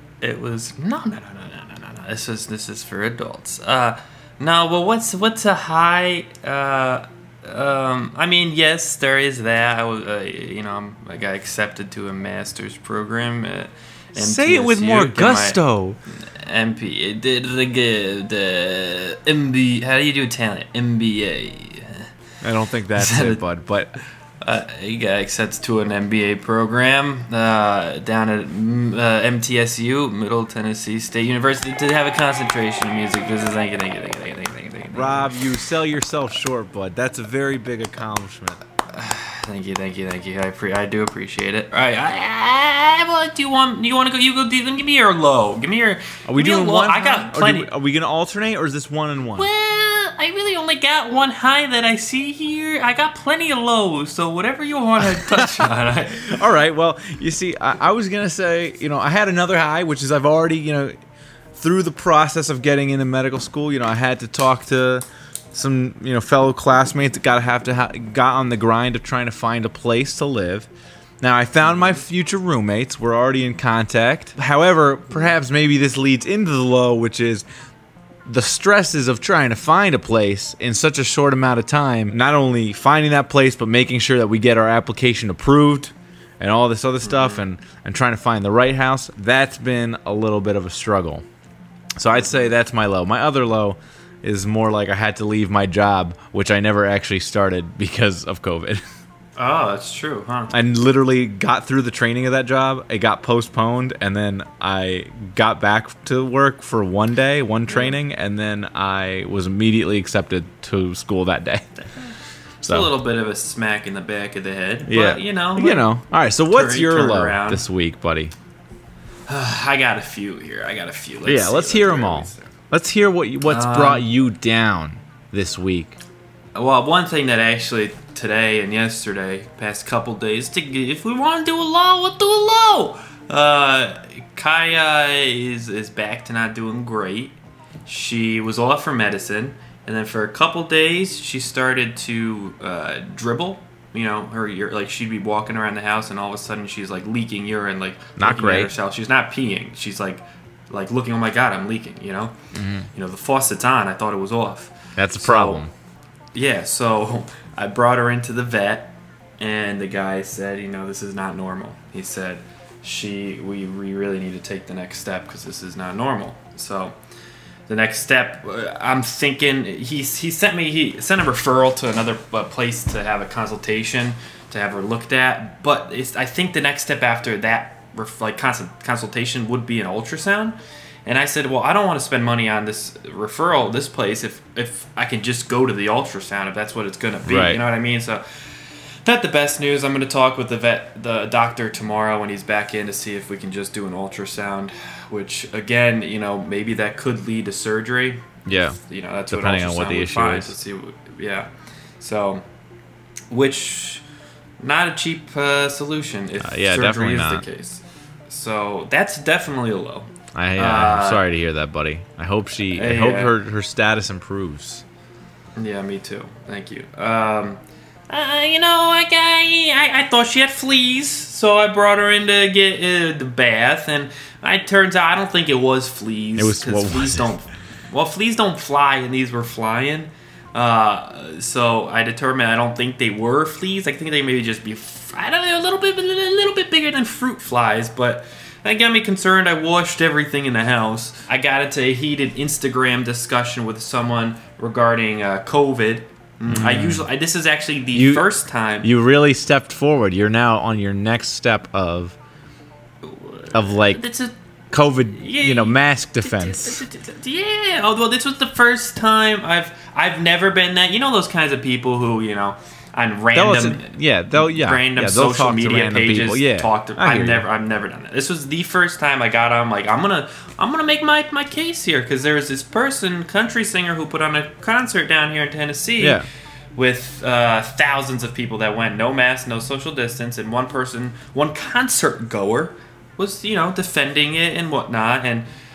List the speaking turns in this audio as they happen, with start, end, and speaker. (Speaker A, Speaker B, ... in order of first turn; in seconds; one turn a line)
Speaker A: 0.2-15.6
Speaker B: 14.2-16.0
Speaker A: 16.1-22.1
Speaker B: 22.4-23.9
Speaker A: 22.9-23.4
Speaker A: 24.4-35.3
Speaker B: 34.9-38.6
Speaker A: 38.9-47.7
Speaker B: 46.3-49.5
Speaker A: 49.4-56.4
Speaker B: 55.1-60.9
Speaker B: 61.6-70.7
Speaker B: 71.2-77.4
Speaker A: 71.6-72.0
Speaker B: 78.3-91.2
Speaker A: 87.0-87.5
Speaker B: 92.0-98.8
Speaker A: 92.1-92.5
Speaker A: 99.4-100.5
Speaker B: 100.5-111.7
Speaker A: 107.7-108.0
Speaker A: 111.8-115.9
Speaker B: 112.6-112.9
Speaker B: 114.9-118.3
Speaker A: 116.5-117.6
Speaker A: 119.3-122.6
Speaker B: 121.3-126.0
Speaker A: 123.5-124.1
Speaker A: 126.5-152.4
Speaker B: 148.2-148.7
Speaker B: 152.5-152.9
Speaker A: 152.9-155.6
Speaker B: 155.0-155.7
Speaker A: 156.3-166.9
Speaker A: 167.7-188.2
Speaker B: 187.2-187.6
Speaker A: 189.1-198.3
Speaker B: 198.4-200.6
Speaker A: 198.8-201.5
Speaker A: 202.0-202.4
Speaker A: 203.3-204.0
Speaker A: 204.6-211.2
Speaker B: 206.4-207.4
Speaker B: 210.3-214.8
Speaker A: 212.7-213.4
Speaker A: 215.6-248.9
Speaker B: 226.4-227.3
Speaker B: 246.5-247.1
Speaker B: 247.9-248.3
Speaker B: 248.8-252.2
Speaker A: 253.0-254.3
Speaker B: 253.5-254.1
Speaker B: 254.7-256.8
Speaker A: 255.1-276.2
Speaker B: 263.4-267.5
Speaker B: 276.0-276.3
Speaker A: 276.8-285.5